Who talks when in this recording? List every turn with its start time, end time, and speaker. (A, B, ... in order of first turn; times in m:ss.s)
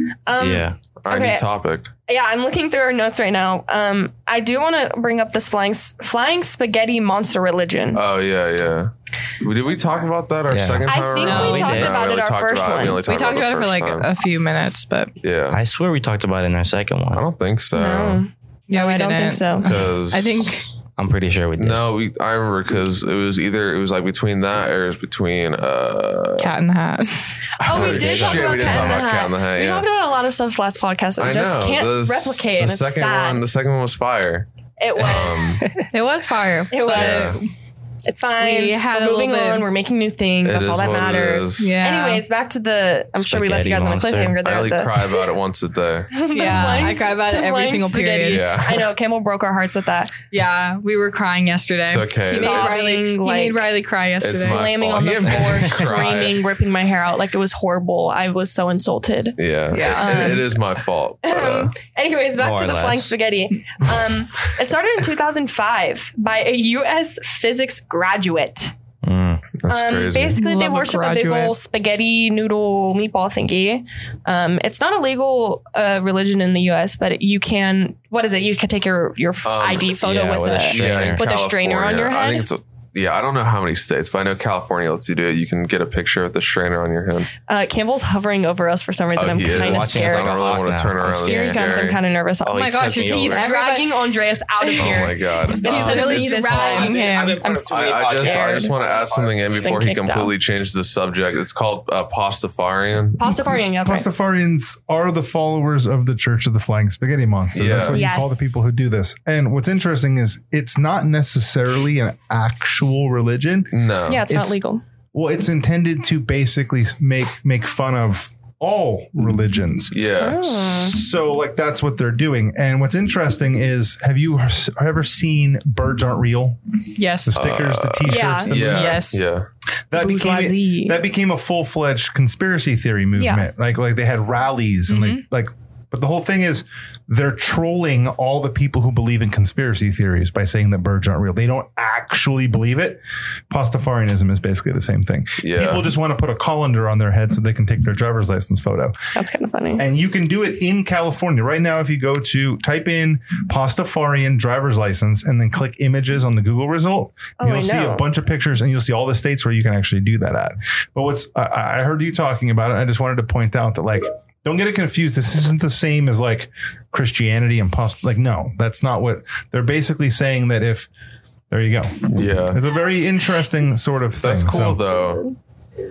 0:00.2-0:01.4 A
0:00.4-0:00.8 B
0:01.0-0:01.9 C
0:02.0-0:08.0 A
0:07.9-0:14.1 C
0:10.5-0:11.9 B
0:10.8-0:13.0 A
0:11.2-0:11.9 D
0:13.0-0:15.1 D
0:15.2-0:15.6 C
0:15.5-0:17.2 B
0:17.1-0:18.2 C
0:17.7-0:19.7 A
0:18.7-0:20.7 D
0:19.6-0:20.5 C
0:21.0-0:21.8 B
0:21.6-0:26.5 C
0:26.4-0:27.4 D
0:27.6-0:33.4 A
0:27.6-0:29.9 C
0:27.7-0:29.0 B
0:31.2-0:35.6 C
0:34.8-0:35.6 A
0:35.6-0:35.8 B
0:35.9-0:37.5 D
0:36.7-0:37.4 A
0:36.9-0:37.4 C
0:38.0-0:45.3 A
0:38.4-0:39.7 D
0:40.4-0:41.8 C
0:41.6-0:42.2 D
0:43.2-0:44.4 B
0:44.4-0:46.6 C
0:46.1-0:50.2 A
0:46.3-0:48.5 D
0:48.2-0:48.9 C
0:50.3-0:54.7 D
0:51.9-0:52.8 C
0:52.2-0:53.8 A
0:54.2-0:56.5 C
0:54.3-1:00.6 A
0:55.3-0:56.2 B
0:59.4-1:01.7 C
0:59.8-1:00.4 D
1:01.2-1:08.7 A
1:02.4-1:03.2 B
1:09.0-1:09.4 B
1:09.6-1:10.4 C
1:09.7-1:22.5 A
1:10.3-1:11.6 D
1:19.4-1:20.0 C
1:20.0-1:21.2 B
1:20.7-1:27.3 C
1:27.4-1:30.5 A
1:29.1-1:32.0 C
1:29.4-1:31.8 B
1:31.0-1:38.7 A
1:32.4-1:33.5 B
1:32.5-1:37.5 D
1:34.8-1:37.0 C
1:36.8-1:39.3 B
1:37.6-1:43.2 C
1:39.5-1:40.3 A
1:43.2-1:44.1 A
1:43.3-1:53.7 E
1:47.5-1:48.0 C
1:47.8-1:48.6 A
1:53.7-1:54.2 C
1:54.1-1:54.8 A
1:54.2-1:54.6 E
1:55.1-2:00.0 E
1:59.9-2:00.6 C
2:00.1-2:01.0 A
2:00.6-2:06.6 E
2:07.0-2:07.3 D
2:07.2-2:09.1 E
2:07.3-2:09.5 C
2:08.0-2:08.6 A
2:08.6-2:09.2 D
2:09.9-2:29.0 E
2:09.9-2:11.0 A
2:13.2-2:13.5 A
2:14.9-2:15.2 D
2:25.4-2:25.9 C
2:29.1-2:29.8 A
2:29.8-2:50.9 E
2:37.4-2:38.1 A
2:51.5-2:54.8 E
2:52.1-2:52.6 C
2:54.2-2:55.2 C
2:54.5-2:55.4 A